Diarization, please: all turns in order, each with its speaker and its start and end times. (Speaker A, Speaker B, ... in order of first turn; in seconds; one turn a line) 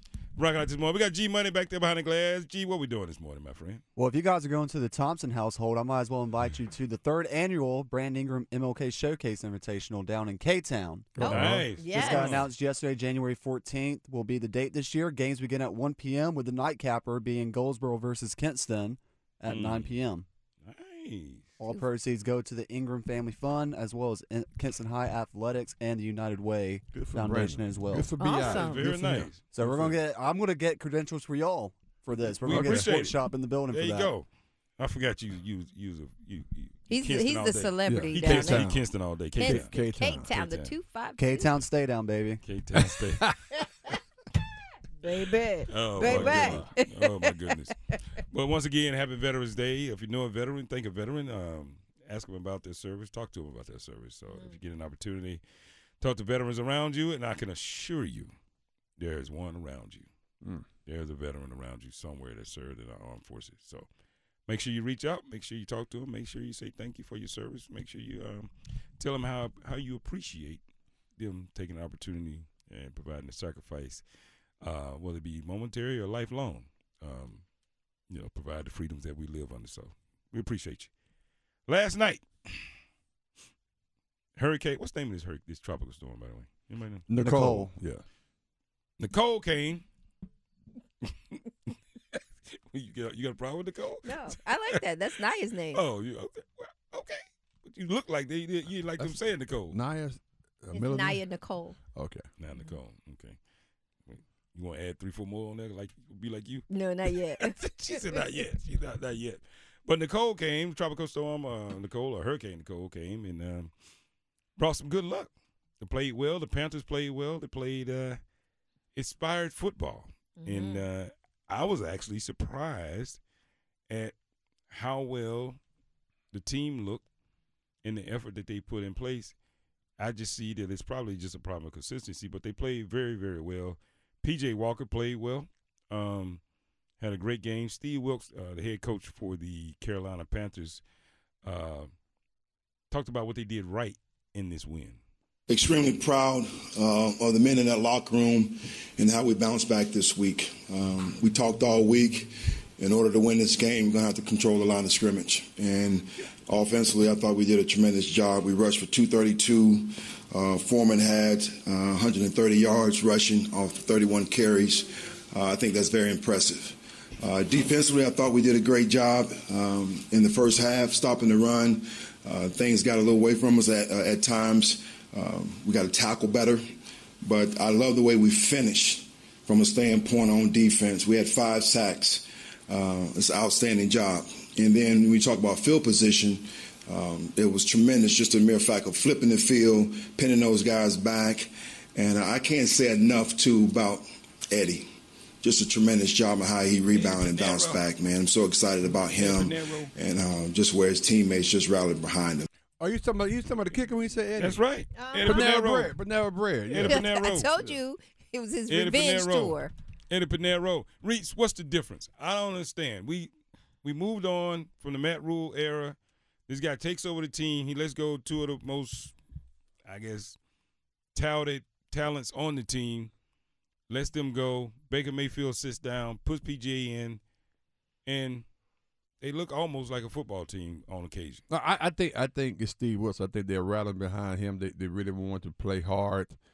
Speaker A: 0.3-3.8
Speaker B: 4.0-20.2
Speaker C: 11.2-11.7
Speaker D: 11.2-12.3
Speaker A: 11.2-12.5
Speaker A: 19.4-19.9
Speaker A: 20.6-21.5
Speaker B: 21.6-28.1
Speaker C: 26.9-29.9
Speaker D: 28.2-28.8
Speaker A: 28.4-29.8
Speaker B: 29.5-34.1
Speaker A: 32.4-33.2
Speaker C: 32.4-32.9
Speaker A: 33.7-34.2
Speaker A: 34.8-39.7
Speaker D: 36.9-38.7
Speaker C: 37.9-38.8
Speaker D: 39.4-41.5
Speaker C: 39.4-40.3
Speaker A: 40.3-40.7
Speaker B: 41.2-42.4
Speaker A: 42.4-43.3
Speaker C: 42.7-43.6
Speaker D: 45.0-47.3
Speaker A: 45.7-47.7
Speaker C: 46.0-46.7
Speaker A: 48.3-55.4
Speaker A: 56.0-58.3
Speaker A: 59.0-60.1
Speaker A: 60.9-63.9
Speaker A: 64.5-70.6
Speaker A: 71.2-74.0
Speaker A: 74.6-77.4
Speaker A: 78.1-80.9
Speaker A: 81.7-82.7
Speaker A: 84.4-87.1
Speaker C: 87.1-88.0
Speaker B: 87.1-87.7
Speaker A: 89.0-89.8
Speaker A: 91.0-94.8
Speaker D: 94.0-95.8
Speaker A: 95.7-99.8
Speaker C: 99.7-101.2
Speaker D: 100.7-101.8
Speaker C: 101.9-102.2
Speaker A: 102.4-103.4
Speaker A: 104.1-113.7
Speaker D: 106.7-108.2
Speaker A: 114.6-118.2
Speaker A: 118.9-123.2
Speaker D: 120.4-120.8
Speaker A: 123.9-124.1
Speaker A: 124.7-125.6
Speaker A: 126.3-127.0
Speaker A: 127.8-129.3
Speaker A: 130.0-136.4
Speaker A: 137.0-140.8
Speaker A: 141.4-141.9
Speaker A: 142.9-145.0
Speaker E: 145.5-176.6
Speaker E: 177.2-194.9
Speaker E: 195.4-202.5
Speaker A: 196.9-197.8
Speaker A: 199.1-199.9
Speaker C: 202.8-204.6
Speaker A: 204.4-205.9
Speaker D: 204.9-205.5
Speaker C: 205.2-207.8
Speaker A: 206.7-207.5
Speaker D: 206.8-209.7
Speaker A: 208.7-209.6
Speaker A: 210.1-213.3
Speaker A: 213.8-215.9
Speaker A: 216.5-219.1
Speaker A: 219.8-220.4
Speaker A: 221.1-223.1
Speaker A: 223.9-227.2
Speaker A: 228.1-228.4
Speaker A: 229.2-231.4
Speaker C: 231.5-236.4